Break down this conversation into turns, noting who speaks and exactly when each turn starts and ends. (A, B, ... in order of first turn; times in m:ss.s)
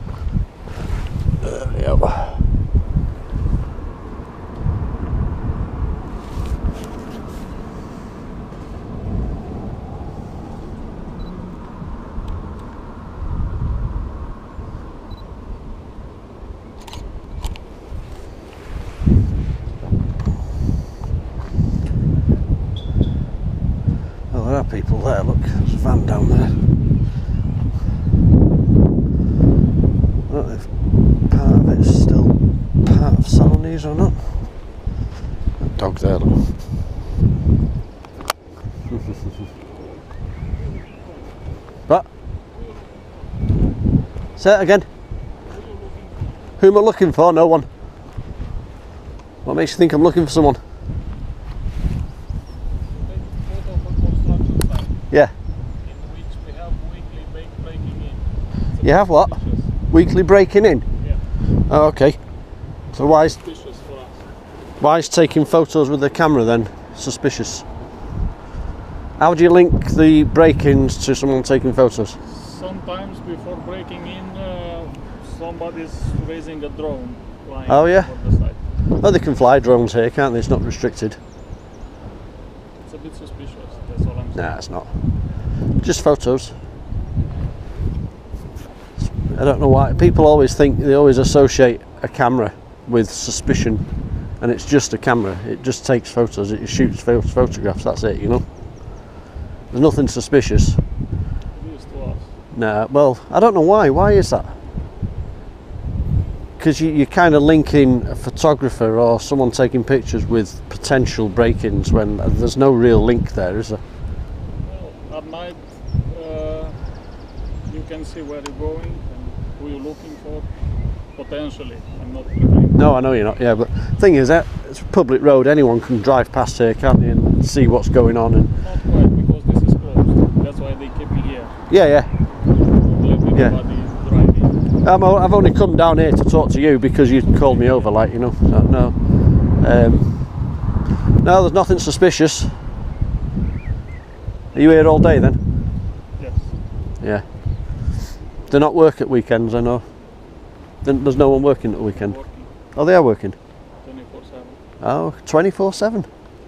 0:01.4-0:02.5 A
0:24.3-0:26.7 A
0:30.3-0:34.5 A
0:35.6-0:36.6 A
0:44.4-0:44.8 A
0:46.6-0:47.7 A
0:49.4-0:50.6 A
0:52.9-0:55.0 B
0:55.8-0:59.7 B
0:58.8-1:01.0 A
1:01.6-1:03.4 A
1:03.4-1:04.3 B
1:04.8-1:07.7 A
1:09.2-1:12.2 A
1:12.2-1:18.7 B
1:17.7-1:18.5 A
1:19.0-1:21.2 A
1:22.8-1:24.7 B
1:24.3-1:26.5 A
1:29.0-1:39.0 A
1:39.7-1:40.8 A
1:41.5-1:42.4 B
1:42.5-1:44.6 A
1:46.6-1:53.8 A
1:54.6-1:57.1 B
1:57.6-2:02.9 B
2:02.7-2:08.5 A
2:08.6-2:14.7 B
2:11.7-2:12.1 A
2:14.8-2:20.6 A
2:17.1-2:18.0 B
2:21.2-2:22.6 A
2:24.5-2:25.4 A
2:26.2-2:26.6 B
2:27.0-2:27.9 A
2:28.5-2:30.1 A
2:30.8-2:33.4 A
2:31.9-2:32.5 B
2:33.8-2:34.6 B
2:34.8-2:36.1 A